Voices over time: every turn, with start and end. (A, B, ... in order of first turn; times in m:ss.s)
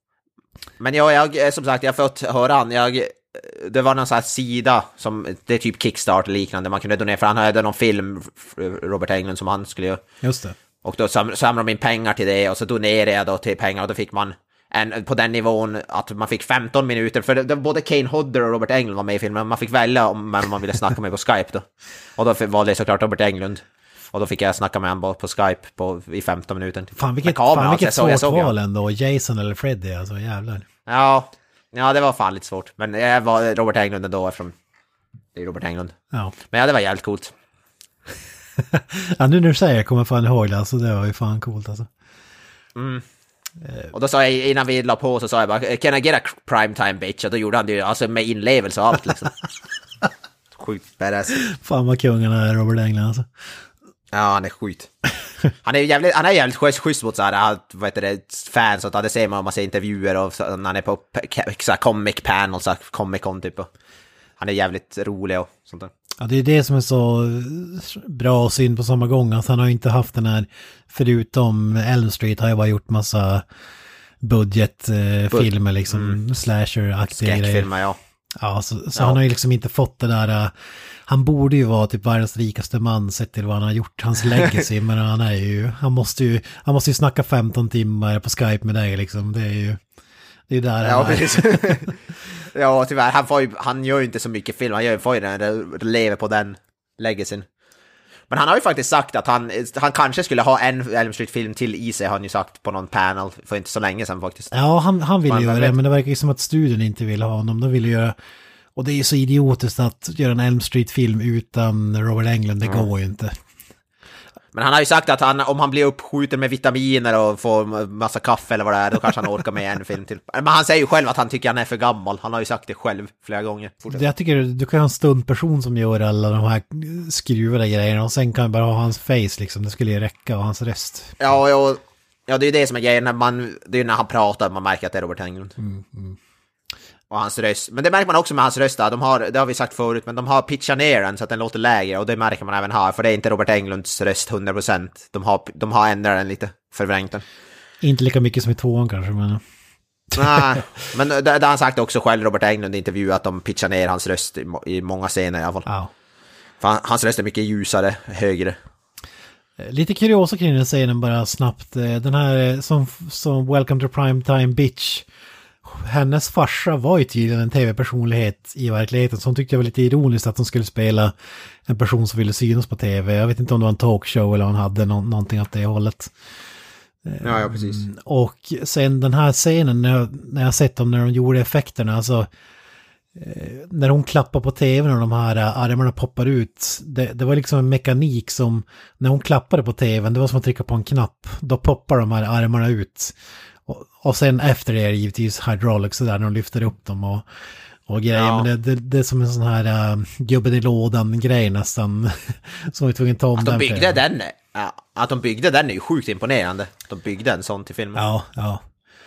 0:00.8-0:10.0 A
0:10.2-0:10.6 B
0:10.8-0:28.5 A
0:27.0-0:30.6 B
0:30.9-0:34.6 A
0:35.4-0:36.0 A
0:36.5-0:37.3 A
0:38.6-0:41.9 B
0:42.8-0:43.1 A
0:43.7-0:43.9 B
0:43.9-0:49.3 A
0:50.5-0:51.4 A
0:51.4-0:53.3 B
0:54.1-0:54.9 A
0:55.6-1:03.7 A
1:04.4-1:05.9 A
1:06.2-1:13.4 B
1:14.2-1:17.7 B
1:15.3-1:16.2 A
1:17.1-1:18.0 A
1:18.4-1:20.5 B
1:19.0-1:19.2 A
1:21.1-1:29.8 B
1:24.3-1:24.6 A
1:30.5-1:31.9 B
1:30.8-1:31.9 A
1:32.5-1:37.5 A
1:38.3-1:44.5 A
1:44.5-1:48.2 B
1:45.3-1:45.8 A
1:48.8-1:53.4 B
1:54.5-2:04.0 A
2:03.9-2:11.2 B
2:11.2-2:15.5 A
2:15.6-2:16.2 B
2:17.1-2:27.2 A
2:27.8-2:29.4 B
2:30.2-2:35.7 A
2:35.7-2:35.9 B
2:36.6-2:38.6 A
2:39.6-2:45.1 B
2:45.6-2:51.1 B
2:51.7-2:56.1 B
2:57.0-3:02.3 B
2:57.2-2:57.8 A
3:03.2-3:13.2 B
3:13.7-3:17.2 B
3:17.9-3:24.0 B
3:18.1-3:18.5 A
3:23.4-3:28.0 A
3:28.0-3:28.6 B